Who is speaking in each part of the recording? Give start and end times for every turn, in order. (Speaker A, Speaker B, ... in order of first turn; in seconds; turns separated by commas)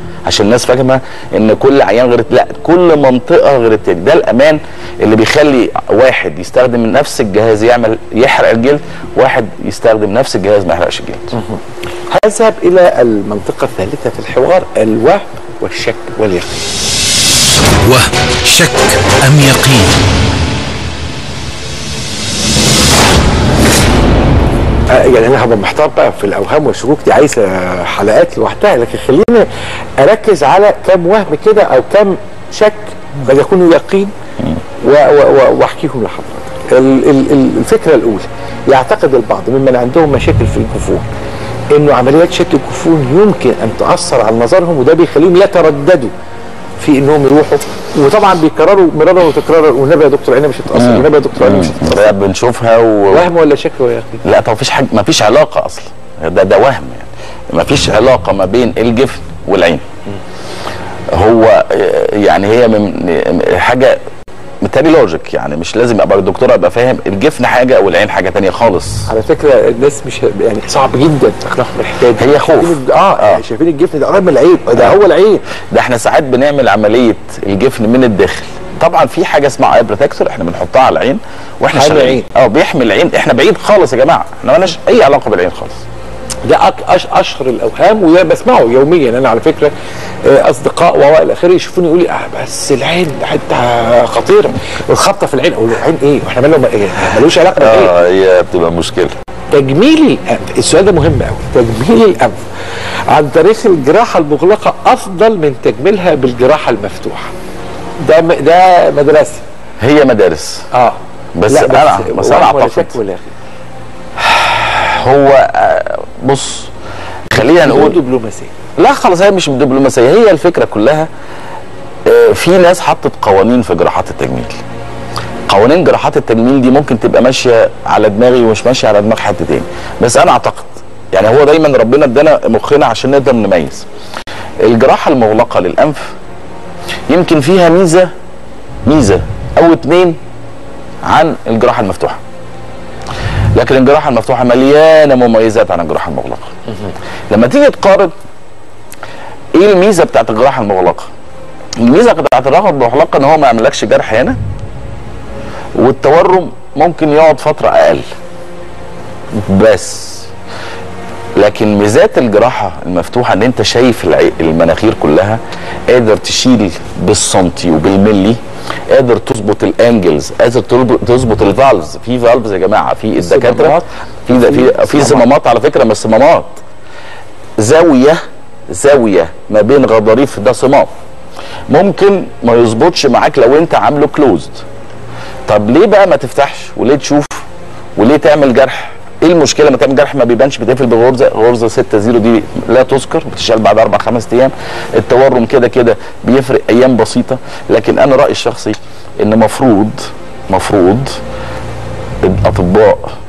Speaker A: 0.2-11.3, Speaker B: 12.1-16.7, Speaker C: 17.8-20.0, Speaker B: 24.9-29.5, Speaker B: 30.0-34.1, Speaker B: 34.8-41.1, Speaker B: 41.7-46.1, Speaker B: 46.8-52.1, Speaker A: 50.7-53.3, Speaker B: 53.1-54.2, Speaker A: 54.2-59.8, Speaker A: 61.1-64.0, Speaker A: 64.6-69.1, Speaker B: 69.1-75.4, Speaker A: 72.1-73.4, Speaker A: 75.7-85.8, Speaker B: 81.7-82.3, Speaker B: 86.5-89.7, Speaker B: 90.2-97.9, Speaker A: 97.5-99.2, Speaker B: 99.5-102.5, Speaker B: 103.1-107.3, Speaker B: 108.0-109.4, Speaker A: 109.8-110.7, Speaker B: 110.7-113.3, Speaker A: 111.3-113.0, Speaker A: 114.2-116.7, Speaker B: 117.3-118.5, Speaker A: 117.3-118.0, Speaker A: 118.8-121.1, Speaker A: 122.0-124.6, Speaker A: 125.5-133.8, Speaker A: 134.6-136.2, Speaker A: 137.1-138.1, Speaker A: 138.8-140.2, Speaker A: 141.0-142.2, Speaker A: 143.6-146.5, Speaker A: 147.3-148.1, Speaker A: 149.5-151.1, Speaker A: 151.8-154.4, Speaker A: 155.8-158.1, Speaker A: 159.4-160.3, Speaker A: 161.4-176.6, Speaker B: 173.2-175.2, Speaker A: 177.6-180.9, Speaker A: 181.7-184.6, Speaker A: 185.5-201.2, Speaker A: 202.2-203.1